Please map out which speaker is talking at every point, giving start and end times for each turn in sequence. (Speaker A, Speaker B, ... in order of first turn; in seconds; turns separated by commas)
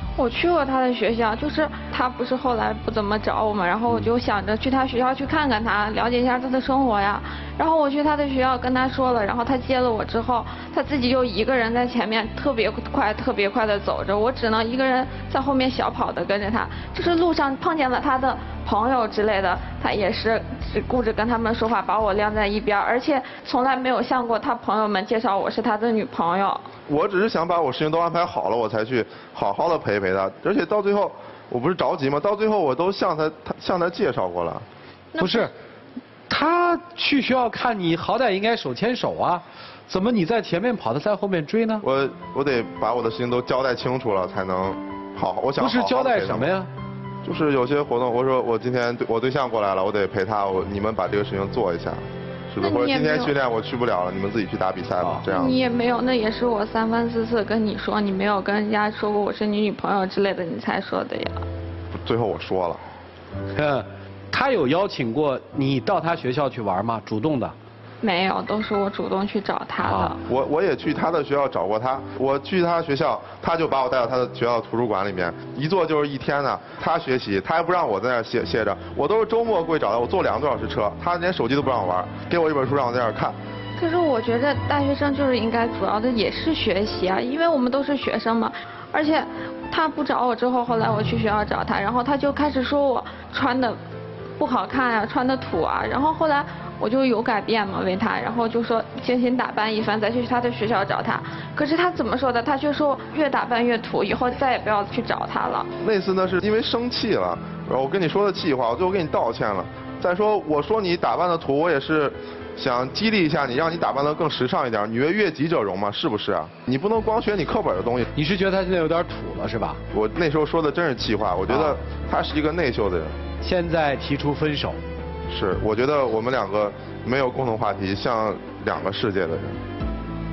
Speaker A: 0.2-26.6, Speaker B: 26.9-34.6, Speaker A: 35.1-35.5, Speaker C: 35.2-35.5, Speaker C: 36.3-41.8, Speaker B: 41.8-46.5, Speaker C: 45.6-46.7, Speaker B: 47.2-55.6, Speaker A: 52.6-53.3, Speaker A: 55.2-61.5, Speaker B: 61.9-62.8, Speaker C: 63.5-67.5, Speaker A: 68.0-70.2, Speaker C: 69.8-70.1, Speaker B: 70.2-83.3, Speaker A: 83.8-93.8, Speaker A: 94.4-105.7, Speaker B: 105.8-118.1, Speaker C: 118.1-119.8, Speaker B: 119.9-123.1, Speaker C: 121.5-121.8, Speaker C: 123.4-124.8, Speaker B: 125.3-129.6